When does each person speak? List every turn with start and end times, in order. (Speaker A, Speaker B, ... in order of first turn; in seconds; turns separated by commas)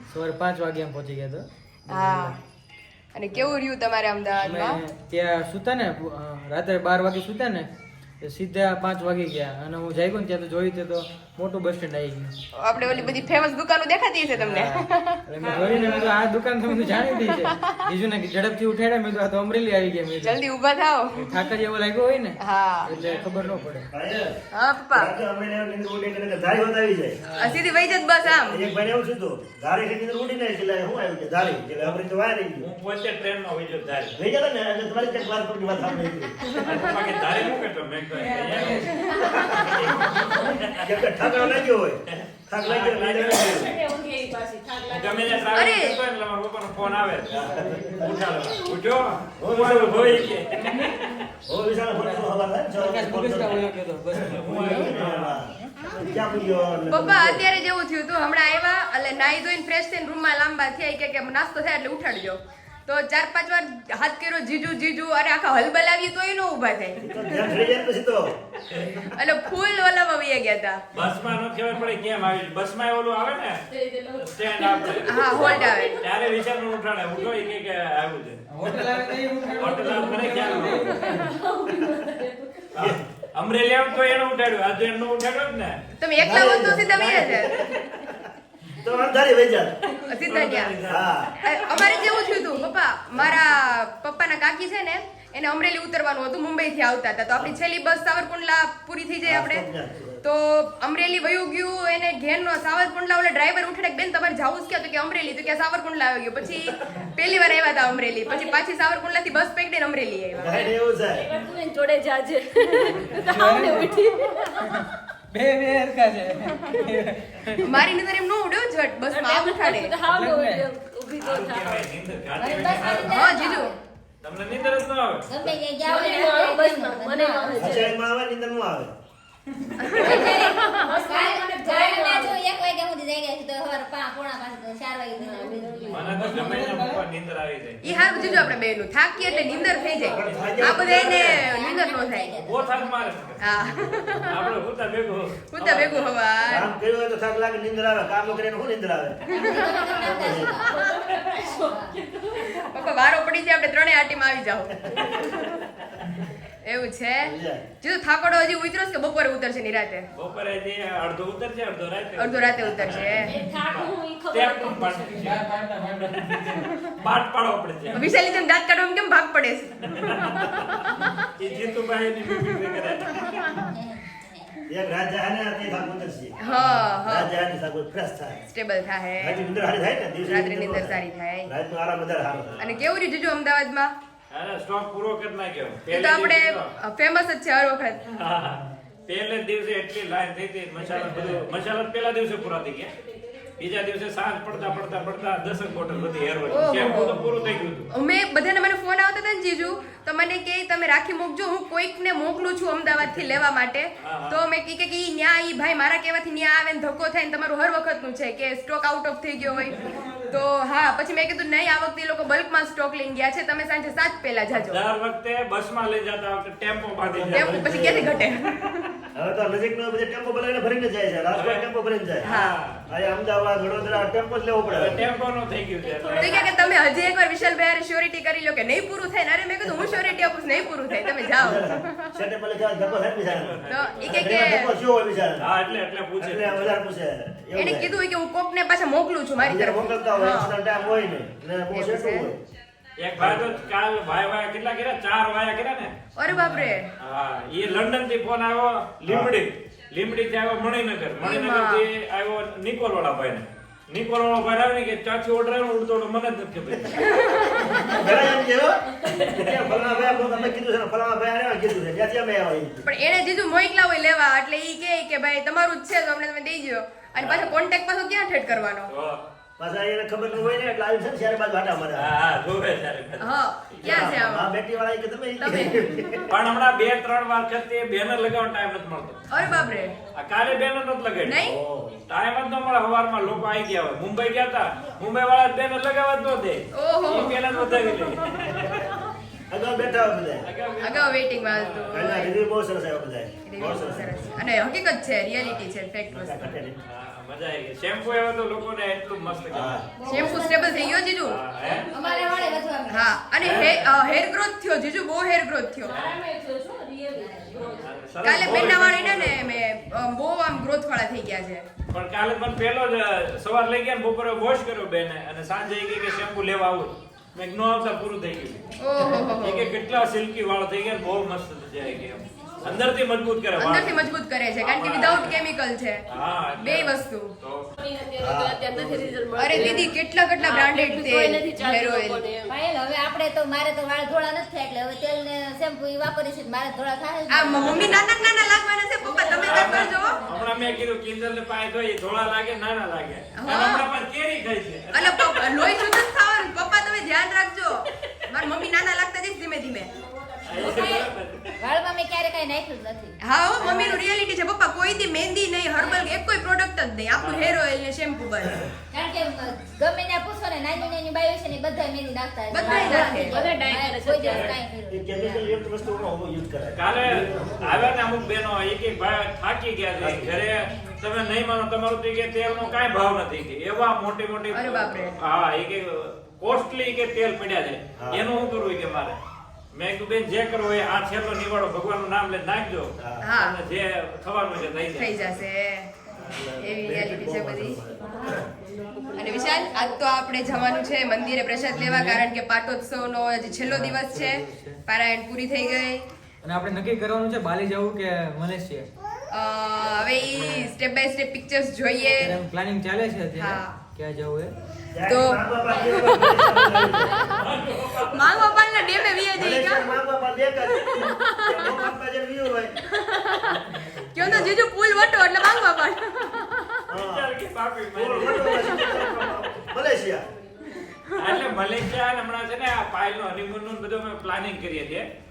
Speaker A: 0.1-2.4, Speaker B: 1.9-2.4, Speaker B: 3.1-4.8, Speaker A: 4.4-7.7, Speaker A: 8.2-13.2, Speaker B: 12.5-15.8, Speaker A: 14.3-20.4, Speaker C: 15.4-16.1, Speaker D: 15.5-15.9, Speaker B: 16.7-17.9, Speaker B: 20.2-21.3, Speaker A: 21.1-23.9, Speaker B: 22.4-22.9, Speaker E: 22.9-23.7, Speaker D: 23.9-24.4, Speaker B: 24.5-25.1, Speaker D: 24.9-27.2, Speaker B: 27.4-28.6, Speaker D: 28.3-32.7, Speaker E: 31.8-32.0, Speaker E: 32.6-34.1, Speaker D: 34.2-36.5, Speaker E: 36.4-41.5, Speaker B: 36.6-36.9, Speaker A: 38.1-39.1, Speaker B: 39.0-39.7, Speaker D: 39.3-39.8, Speaker A: 40.0-40.3, Speaker D: 40.7-43.7, Speaker E: 42.1-43.7, Speaker C: 43.3-45.6, Speaker E: 44.9-47.4, Speaker B: 45.5-46.0, Speaker D: 47.3-48.1, Speaker A: 47.3-48.0, Speaker E: 48.0-51.2, Speaker D: 49.4-50.4, Speaker A: 50.5-51.1, Speaker D: 51.5-57.4, Speaker A: 51.9-54.4, Speaker E: 54.3-55.4, Speaker B: 56.9-67.7, Speaker D: 67.0-68.3, Speaker B: 69.1-70.8, Speaker E: 70.9-73.6, Speaker C: 73.7-76.3, Speaker E: 74.2-75.2, Speaker B: 75.0-75.9, Speaker E: 76.0-80.9, Speaker A: 78.5-81.3, Speaker B: 80.8-81.3, Speaker C: 81.2-82.7, Speaker D: 82.8-83.0, Speaker E: 82.8-85.8, Speaker B: 86.0-87.5, Speaker D: 86.2-89.8, Speaker E: 89.9-91.9, Speaker B: 90.1-90.8, Speaker D: 90.8-91.3, Speaker B: 91.4-99.7, Speaker C: 91.7-92.7, Speaker D: 99.2-100.2, Speaker B: 100.2-110.6, Speaker C: 108.2-108.6, Speaker D: 110.3-111.2, Speaker C: 110.4-114.8, Speaker A: 113.2-114.0, Speaker A: 114.6-117.8, Speaker B: 117.6-119.9, Speaker C: 119.1-121.9, Speaker A: 120.0-120.7, Speaker E: 121.2-123.2, Speaker F: 122.3-123.7, Speaker B: 123.0-123.7, Speaker E: 124.2-125.5, Speaker F: 125.3-127.8, Speaker C: 125.8-128.1, Speaker D: 127.5-128.9, Speaker B: 129.8-130.9, Speaker F: 129.9-136.0, Speaker C: 130.0-132.4, Speaker C: 135.2-136.3, Speaker E: 135.9-137.8, Speaker A: 135.9-137.0, Speaker B: 137.8-142.3, Speaker A: 137.9-138.5, Speaker C: 138.0-138.3, Speaker C: 139.2-140.5, Speaker D: 140.1-141.3, Speaker E: 140.2-141.5, Speaker F: 140.9-143.3, Speaker E: 142.3-143.6, Speaker B: 143.4-144.5, Speaker E: 144.2-146.2, Speaker B: 145.5-146.7, Speaker D: 146.5-149.3, Speaker B: 149.3-149.9, Speaker F: 149.3-151.9, Speaker C: 149.5-152.6, Speaker D: 150.0-150.7, Speaker B: 152.4-155.7, Speaker B: 156.6-160.1, Speaker D: 157.2-157.6, Speaker E: 160.1-165.4, Speaker B: 162.2-163.4, Speaker C: 163.2-165.3, Speaker A: 165.1-166.9, Speaker E: 166.0-168.1, Speaker B: 167.9-171.1, Speaker E: 169.9-173.6, Speaker C: 171.5-171.8, Speaker B: 173.1-173.7, Speaker D: 174.7-178.4, Speaker B: 176.4-177.3, Speaker B: 178.5-179.5, Speaker D: 179.2-182.6, Speaker B: 180.2-181.5, Speaker E: 182.4-182.8, Speaker B: 182.6-183.9, Speaker E: 184.3-186.7, Speaker B: 185.9-188.0, Speaker E: 188.1-192.9, Speaker A: 191.0-191.4, Speaker E: 193.6-197.9, Speaker B: 196.5-197.3, Speaker B: 197.9-214.8, Speaker E: 204.0-204.4, Speaker A: 209.8-210.3, Speaker E: 214.5-217.8, Speaker D: 217.1-218.2, Speaker B: 217.3-218.9, Speaker D: 219.1-222.3, Speaker E: 221.3-221.7, Speaker E: 222.2-222.8, Speaker B: 222.2-222.6, Speaker D: 222.9-225.0, Speaker E: 224.6-226.4, Speaker B: 226.1-232.2, Speaker D: 231.3-235.5, Speaker E: 233.1-234.6, Speaker B: 233.7-234.7, Speaker E: 235.4-236.8, Speaker D: 236.2-237.9, Speaker B: 237.5-240.6, Speaker D: 239.4-242.4, Speaker E: 240.8-241.2, Speaker B: 241.7-242.3, Speaker E: 243.0-245.9, Speaker D: 243.2-243.7, Speaker B: 246.2-246.9, Speaker A: 246.3-246.8, Speaker E: 247.0-257.9, Speaker B: 251.2-251.8, Speaker B: 256.9-258.0, Speaker D: 257.8-262.8, Speaker C: 259.0-259.4, Speaker B: 262.8-268.9, Speaker E: 267.2-267.6, Speaker E: 268.9-269.2, Speaker D: 269.6-272.1, Speaker E: 271.9-274.2, Speaker B: 273.2-274.5, Speaker D: 273.8-276.2, Speaker B: 275.4-275.9, Speaker E: 276.3-279.4, Speaker B: 279.3-280.0, Speaker E: 280.1-281.4, Speaker B: 281.2-281.6, Speaker D: 281.4-281.9, Speaker E: 282.0-289.0, Speaker B: 286.7-287.4, Speaker D: 289.5-290.4, Speaker E: 290.4-292.1, Speaker B: 290.8-292.3, Speaker D: 291.9-294.3, Speaker B: 293.4-296.5, Speaker D: 296.1-296.8, Speaker E: 296.8-300.1, Speaker D: 299.5-300.0, Speaker F: 299.9-301.0, Speaker B: 300.1-301.4, Speaker E: 301.2-301.9, Speaker F: 301.9-303.1, Speaker C: 301.9-302.6, Speaker B: 302.9-305.9, Speaker E: 303.4-303.9, Speaker C: 305.8-308.6, Speaker E: 305.9-306.2, Speaker F: 307.2-307.8, Speaker E: 307.8-309.7, Speaker B: 308.2-311.7, Speaker E: 311.9-318.6, Speaker B: 318.8-319.7, Speaker E: 319.2-324.1, Speaker B: 323.6-326.1, Speaker E: 324.6-325.4, Speaker E: 326.1-327.6, Speaker B: 326.6-327.3, Speaker C: 327.8-332.6, Speaker D: 328.2-329.1, Speaker B: 329.4-332.2, Speaker F: 332.5-338.1, Speaker B: 337.3-340.2, Speaker E: 337.5-337.9, Speaker F: 339.0-340.5, Speaker C: 339.3-339.6, Speaker E: 339.4-345.8, Speaker B: 343.3-343.8, Speaker B: 344.9-349.9, Speaker E: 350.4-351.5, Speaker B: 350.6-351.1, Speaker F: 350.6-351.0, Speaker F: 351.6-354.0, Speaker B: 353.2-358.6, Speaker E: 357.1-357.6, Speaker F: 358.9-365.5, Speaker B: 362.5-363.4, Speaker C: 362.6-364.6, Speaker E: 364.2-364.6, Speaker D: 364.9-368.4, Speaker E: 366.7-379.2, Speaker D: 370.0-370.4, Speaker F: 370.5-370.9, Speaker B: 374.5-375.2, Speaker D: 378.0-378.3, Speaker E: 379.7-385.3, Speaker D: 383.0-383.3, Speaker B: 383.2-383.6, Speaker B: 384.9-385.9, Speaker E: 386.1-386.4, Speaker D: 386.3-388.5, Speaker B: 386.6-387.8, Speaker C: 388.0-389.9, Speaker B: 389.1-396.0, Speaker A: 391.7-392.2, Speaker A: 393.6-394.8, Speaker A: 396.4-398.9, Speaker B: 399.3-402.4, Speaker A: 400.2-400.7, Speaker A: 402.2-404.5, Speaker B: 403.3-403.8, Speaker D: 404.9-407.2, Speaker B: 405.0-407.4, Speaker E: 407.1-408.5, Speaker B: 408.1-409.9, Speaker D: 409.3-412.7, Speaker B: 410.7-411.9, Speaker B: 412.8-416.9, Speaker D: 414.2-414.5, Speaker D: 416.9-417.3, Speaker E: 417.0-418.9, Speaker D: 417.9-420.3, Speaker B: 418.4-419.2, Speaker B: 420.8-421.4, Speaker E: 421.2-425.1